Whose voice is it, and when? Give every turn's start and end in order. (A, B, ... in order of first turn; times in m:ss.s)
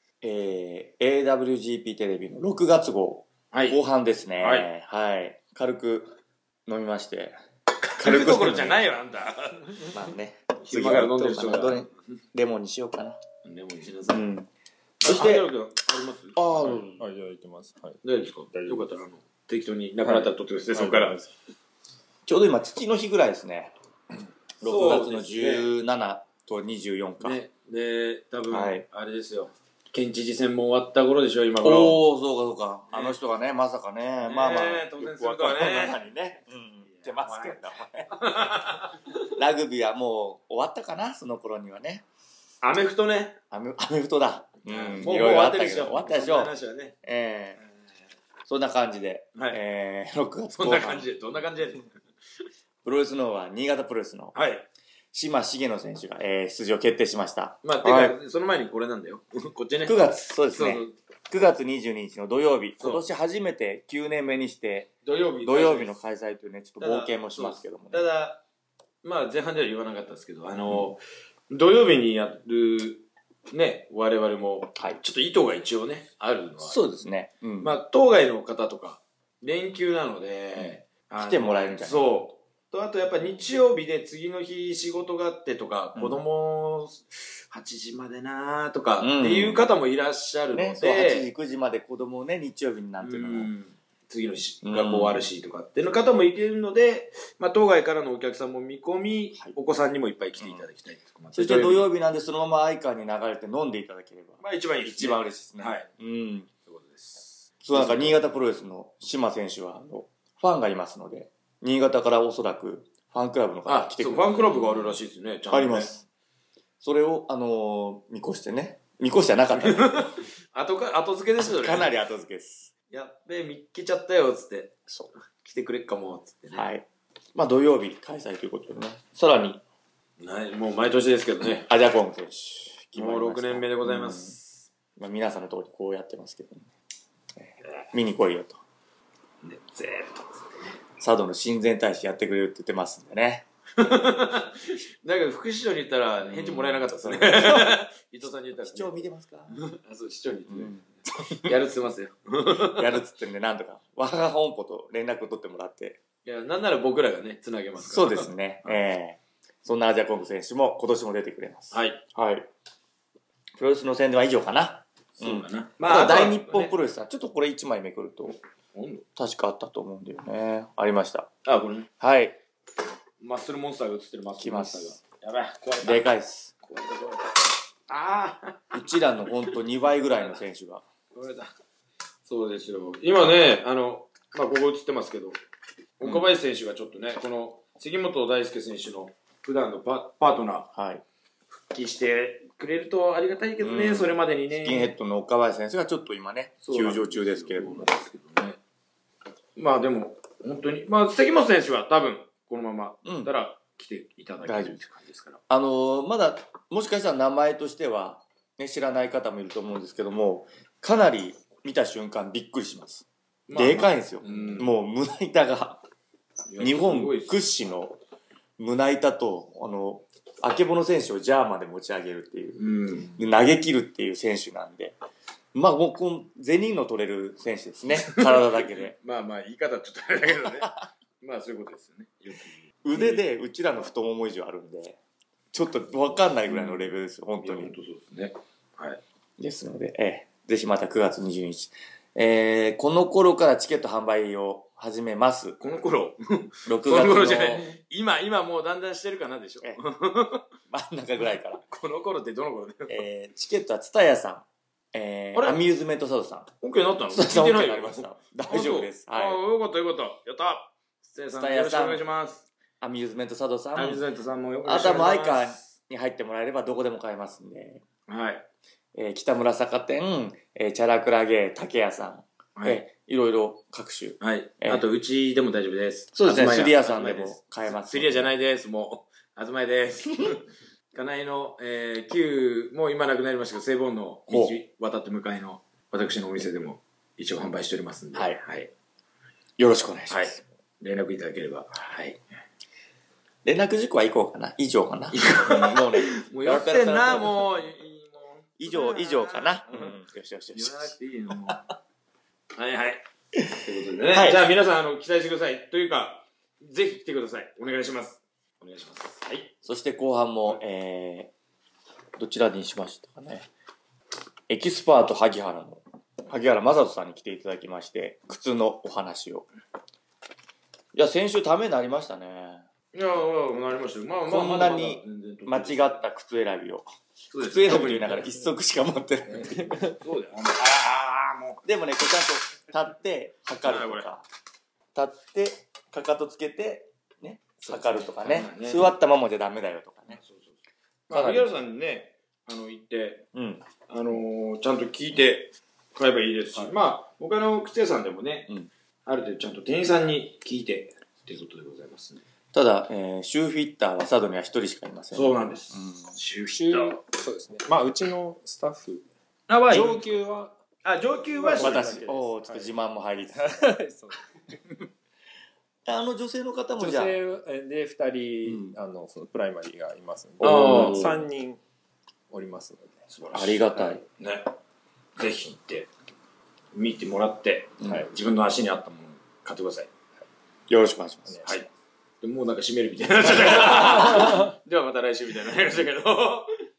0:00.2-0:07.4 A
0:03.5-0:03.8 B
0:04.4-0:04.7 B
0:07.9-0:09.9 B
0:08.0-0:08.8 A
0:09.9-0:13.2 A
0:10.6-0:11.9 B
0:13.4-0:14.2 B
0:14.1-0:14.5 A
0:15.0-0:16.8 B
0:15.0-0:15.5 A
0:16.4-0:17.0 A
0:16.6-0:18.9 C
0:18.0-0:21.2 B
0:20.0-0:21.3 C
0:22.2-0:23.7 A
0:24.6-0:27.4 A
0:24.6-0:25.7 B
0:27.2-0:32.0 B
0:28.5-0:28.8 A
0:31.6-0:38.1 A
0:32.9-0:33.2 B
0:34.2-0:36.0 B
0:37.2-0:39.0 B
0:39.3-0:42.0 A
0:42.6-0:43.4 B
0:43.5-0:47.6 A
0:44.6-0:46.9 B
0:48.4-0:51.1 A
0:50.5-0:51.9 B
0:52.8-0:54.4 A
0:54.3-0:54.7 B
0:55.1-0:58.2 A
0:57.6-1:00.9 B
0:59.8-1:04.9 A
1:02.8-1:03.0 B
1:05.0-1:05.9 B
1:05.4-1:08.1 A
1:06.8-1:08.4 B
1:09.0-1:16.9 B
1:16.6-1:17.7 A
1:17.6-1:31.3 B
1:20.6-1:22.2 A
1:29.0-1:29.7 A
1:30.5-1:33.5 A
1:33.0-1:41.9 B
1:34.6-1:35.2 A
1:40.4-1:40.6 A
1:41.3-1:46.5 A
1:44.4-1:45.9 B
1:46.7-1:48.2 B
1:47.6-1:56.0 A
1:53.7-1:55.9 B
1:56.8-1:59.9 A
1:59.6-2:01.9 B
2:01.4-2:02.7 A
2:02.9-2:06.7 B
2:06.5-2:09.6 A
2:10.2-2:11.7 B
2:11.6-2:14.3 A
2:12.9-2:14.6 B
2:15.0-2:16.7 A
2:17.4-2:18.6 A
2:19.4-2:20.3 B
2:21.0-2:24.1 A
2:23.8-2:33.0 B
2:26.2-2:27.8 A
2:28.6-2:29.6 A
2:30.5-2:31.5 A
2:32.6-2:36.0 A
2:36.2-2:38.8 B
2:37.8-2:42.5 A
2:41.7-2:42.0 B
2:43.6-2:48.4 A
2:45.2-2:46.7 B
2:48.7-2:49.0 B
2:49.2-2:51.3 A
2:51.4-2:51.9 B
2:52.0-2:52.4 A
2:53.2-2:56.1 B
2:54.4-2:54.9 A
2:55.8-2:56.5 A
2:56.6-2:58.6 B
2:58.7-3:00.8 A
3:01.1-3:01.5 B
3:02.2-3:05.4 B
3:06.0-3:10.7 B
3:10.7-3:11.0 A
3:11.6-3:14.9 B
3:13.6-3:17.9 A
3:16.6-3:18.6 B
3:19.6-3:25.4 B
3:23.0-3:23.3 A
3:24.4-3:24.7 A
3:25.5-3:35.8 A
3:33.5-3:34.7 B
3:36.5-3:37.4 B
3:36.6-3:38.0 A
3:38.6-3:45.0 A
3:42.6-3:43.2 B
3:45.5-3:48.9 A
3:48.1-3:53.2 B
3:52.8-3:55.0 A
3:55.5-3:57.7 A
3:56.5-3:59.0 B
3:59.4-4:05.6 A
4:05.6-4:10.4 B
4:06.6-4:07.8 A
4:10.7-4:11.6 A
4:11.6-4:13.0 B
4:12.9-4:16.5 A
4:16.6-4:22.4 B
4:17.1-4:19.4 A
4:21.3-4:22.0 A
4:22.8-4:24.0 A
4:23.7-4:25.7 B
4:24.6-4:27.8 A
4:28.1-4:28.4 B
4:28.9-4:34.8 A
4:32.6-4:32.8 B
4:34.2-4:48.7 B
4:36.1-4:38.3 A
4:44.3-4:44.5 A
4:48.1-4:48.4 A
4:49.6-4:50.4 A
4:50.1-4:52.2 B
4:53.4-4:57.4 A
4:55.1-4:59.9 B
4:58.6-5:00.9 A
5:00.5-5:01.7 B
5:02.6-5:03.0 B
5:03.6-5:09.5 B
5:04.1-5:04.4 A
5:09.6-5:11.3 A
5:12.2-5:13.5 A
5:14.5-5:19.5 A
5:20.9-5:22.6 A
5:22.9-5:26.0 B
5:24.2-5:26.8 A
5:27.3-5:28.4 B
5:27.4-5:29.7 A
5:29.3-5:31.6 B
5:29.5-5:30.0 C
5:31.6-5:34.2 A
5:33.6-5:34.1 B
5:34.9-5:40.2 A
5:37.6-5:38.2 C
5:38.2-5:38.9 B
5:40.1-5:43.3 B
5:41.1-5:41.5 A
5:43.3-5:43.6 A
5:43.9-5:48.5 B
5:49.0-5:52.2 B
5:52.5-5:56.2 A
5:55.1-5:57.0 B
5:56.5-5:59.0 C
5:59.5-6:00.1 B
5:59.7-6:00.6 C
6:00.8-6:02.0 B
6:01.2-6:02.7 C
6:01.6-6:03.5 A
6:03.3-6:04.2 C
6:05.8-6:07.2 A
6:06.8-6:11.6 C
6:08.4-6:08.8 A
6:10.4-6:11.1 B
6:10.4-6:11.2 A
6:12.3-6:13.0 C
6:13.1-6:14.5 B
6:13.3-6:14.0 A
6:15.2-6:15.9 B
6:16.7-6:19.9 B
6:17.8-6:18.0 A
6:20.7-6:21.5 A
6:21.2-6:21.6 C
6:22.2-6:26.5 B
6:23.9-6:24.5 C